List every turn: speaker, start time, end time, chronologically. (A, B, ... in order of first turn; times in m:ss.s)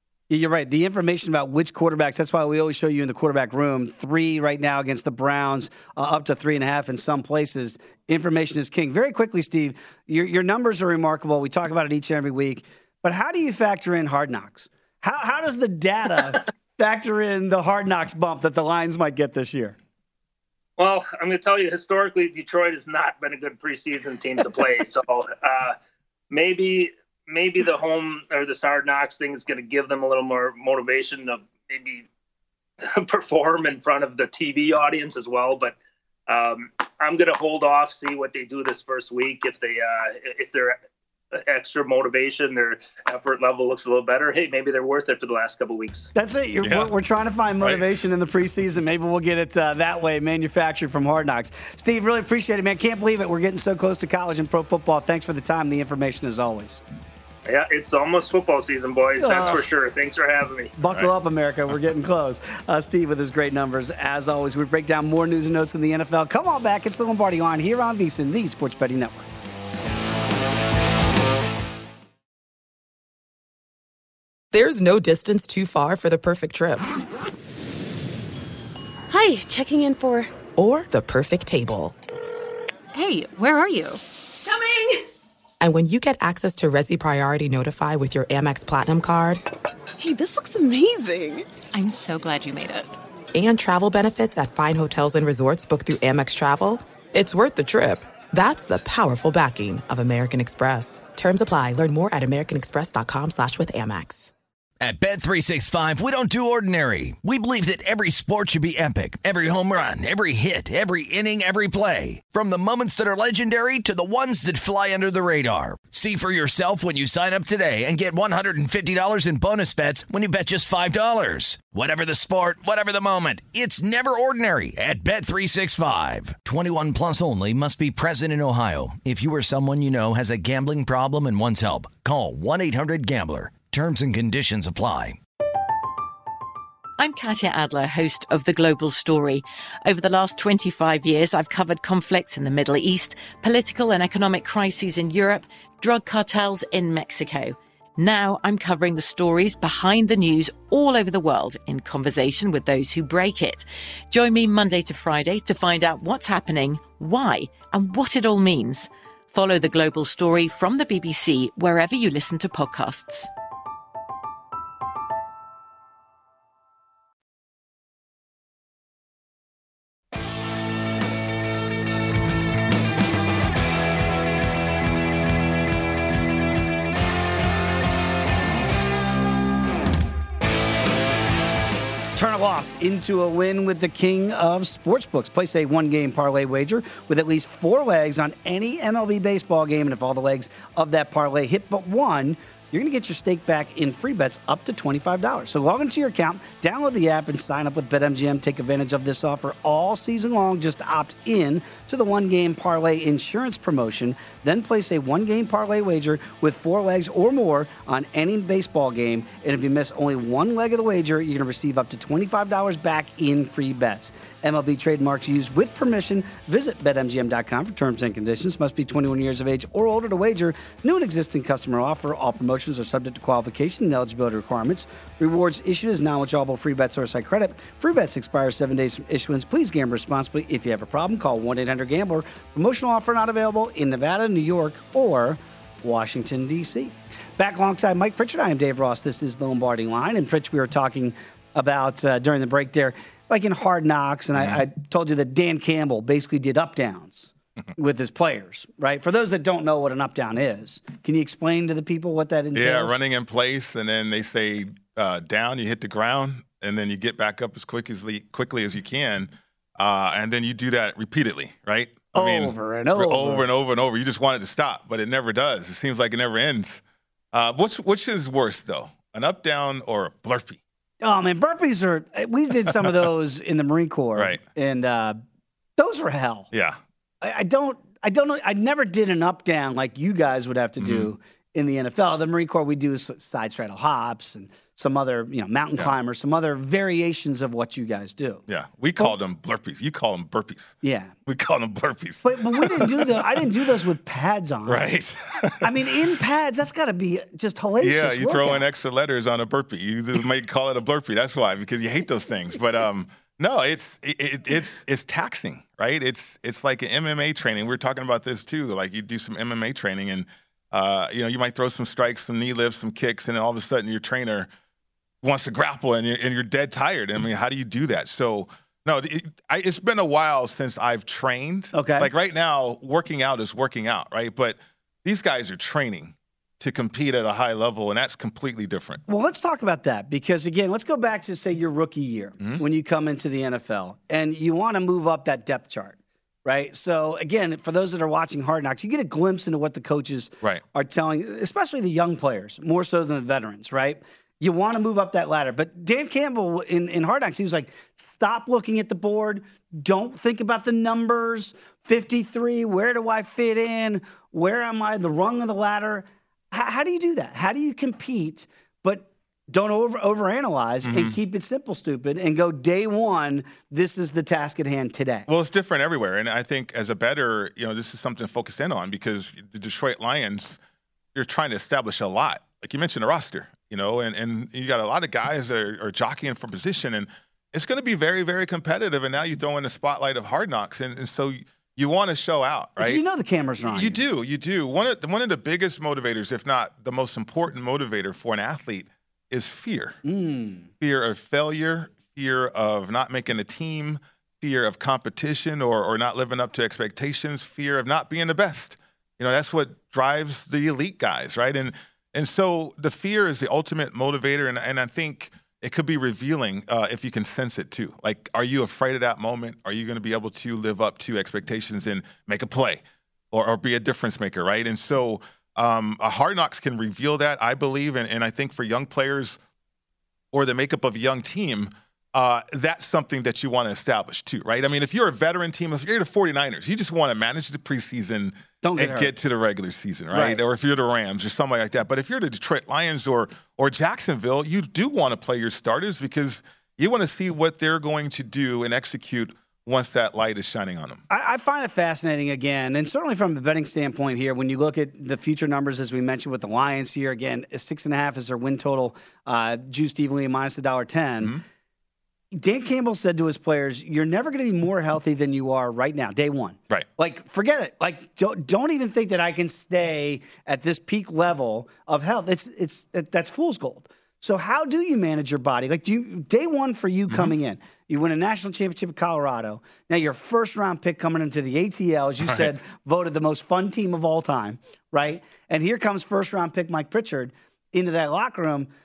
0:00.3-0:19.8 A
0:20.8-0:25.8 B
0:26.3-0:32.1 B
0:32.8-0:35.8 B
0:36.3-0:40.8 B
0:41.3-0:46.1 B
0:46.1-0:56.8 A
0:46.6-0:46.9 C
0:57.4-1:00.7 B
0:59.2-0:59.7 A
1:00.8-1:09.3 A
1:14.5-1:17.0 D
1:19.1-1:20.3 E
1:20.6-1:21.9 D
1:22.9-1:24.0 E
1:25.6-1:29.4 D
1:30.0-1:32.9 E
1:33.3-1:44.3 D
1:44.8-2:15.2 F
2:17.0-2:43.3 G
3:02.1-4:13.0 A
4:12.5-4:26.8 C
4:22.1-4:23.4 A
4:27.3-4:30.6 C
4:31.0-4:35.2 A
4:35.8-4:36.5 A
4:36.5-4:36.8 C
4:37.2-4:48.4 A
4:40.8-4:41.1 C
4:48.5-4:53.4 C
4:50.8-4:51.1 A
4:52.2-4:54.8 A
4:54.7-4:55.7 C
4:55.6-4:58.6 A
4:57.8-5:14.5 C
5:15.2-5:29.0 C
5:21.7-5:22.1 A
5:29.1-6:05.3 A
6:00.8-6:01.2 C
6:05.3-6:10.6 C
6:11.1-6:23.0 C
6:22.8-6:24.0 A
6:23.6-6:30.0 C
6:30.0-6:30.7 A
6:30.8-6:52.8 C
6:53.3-6:59.4 C
7:00.3-7:21.0 C
7:08.6-7:09.1 A
7:10.1-7:10.4 A
7:21.1-7:31.3 A
7:32.3-7:58.7 A